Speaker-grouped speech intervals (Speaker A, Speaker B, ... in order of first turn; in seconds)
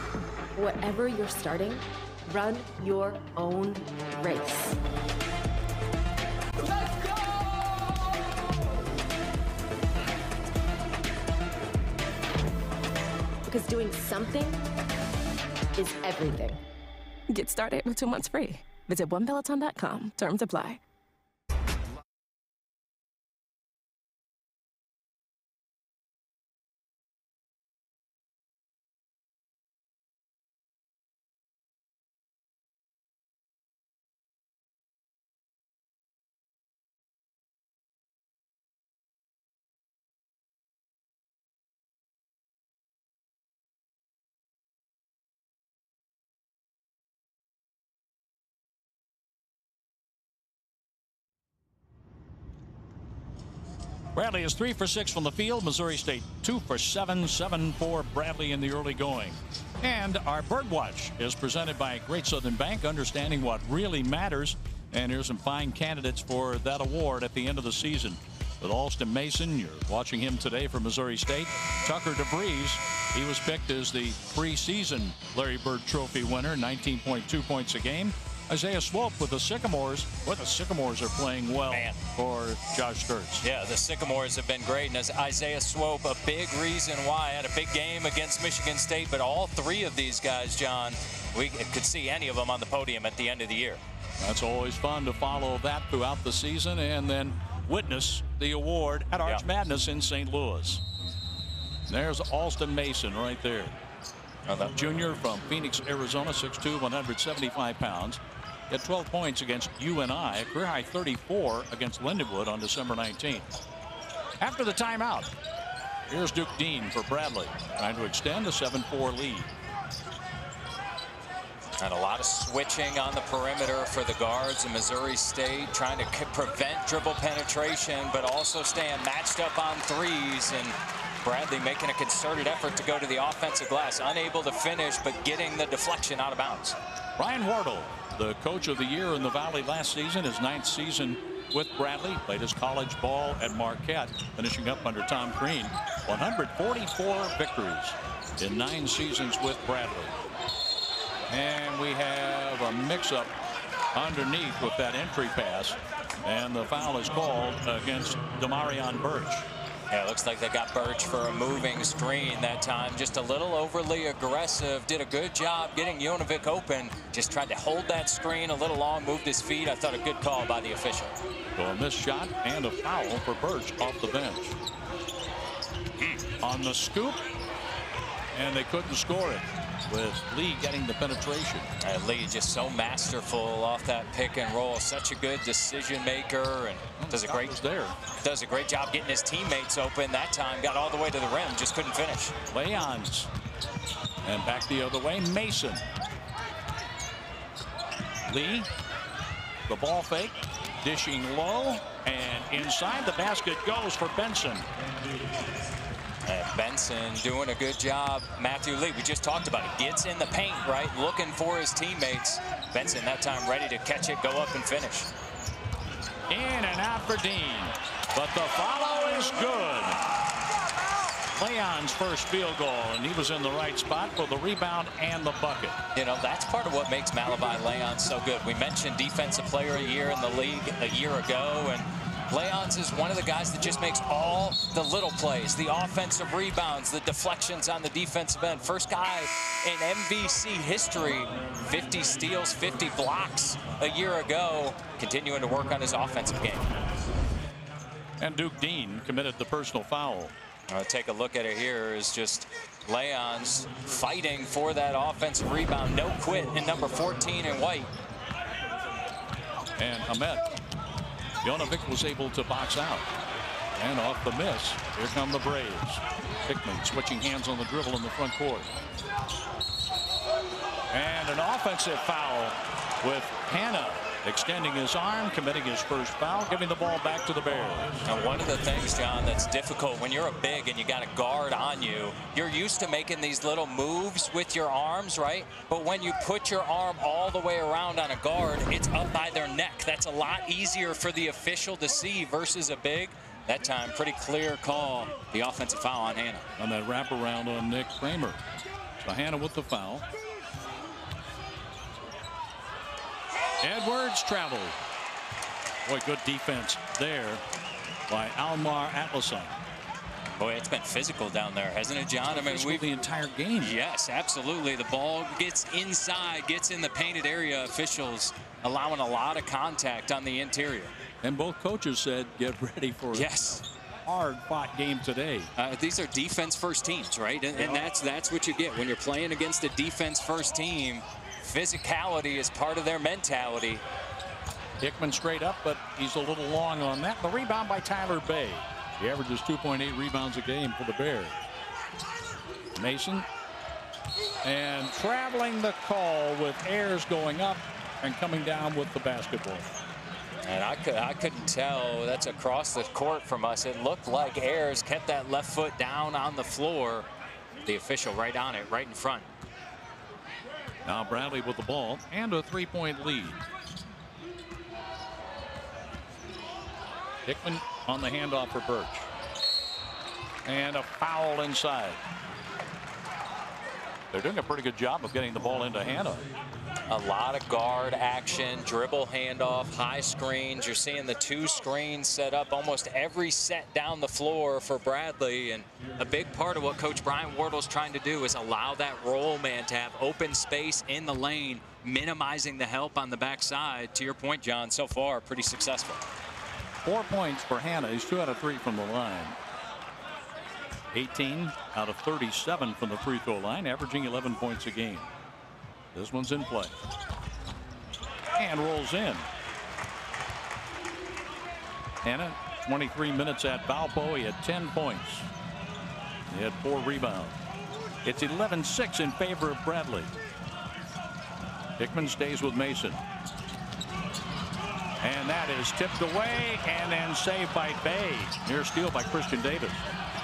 Speaker A: 0.5-4.8, 13.5-14.7, 15.8-16.6
Speaker B: 17.3-20.8
Speaker C: 54.1-83.4, 94.2-100.8, 101.9-103.7, 104.7-113.5, 114.4-115.3, 116.1-119.5, 137.2-150.2, 151.3-153.3, 153.9-159.4, 171.6-174.6, 176.4-177.2, 178.3-181.7, 187.0-188.0, 192.5-193.3, 194.2-195.8, 198.3-198.7, 199.7-204.7, 216.3-220.0, 221.4-225.8, 248.2-250.3, 259.8-260.5, 261.4-263.1, 263.8-268.7, 270.9-278.1, 296.6-298.4, 299.0-300.0, 303.6-304.8, 305.9-307.4, 308.1-309.6, 312.3-313.7, 321.2-323.3, 324.1-325.5, 334.8-341.4, 342.8-343.2, 344.4-349.6, 360.8-363.4, 367.2-369.1, 370.4-372.0, 374.1-376.2, 396.8-399.4, 400.9-405.1, 405.9-406.8, 408.4-409.2, 412.0-415.3, 416.3-417.4, 418.0-420.1, 421.8-423.0, 425.0-429.9
Speaker D: 81.7-82.0, 83.4-93.8, 104.5-104.7, 121.8-136.8, 159.9-171.1, 181.8-187.5, 188.2-192.3, 206.2-215.1, 225.9-246.7, 250.7-257.9, 278.1-296.4, 310.4-312.9, 313.6-320.9, 323.1-323.6, 325.6-333.8, 350.4-357.1, 357.6-359.3, 376.9-396.0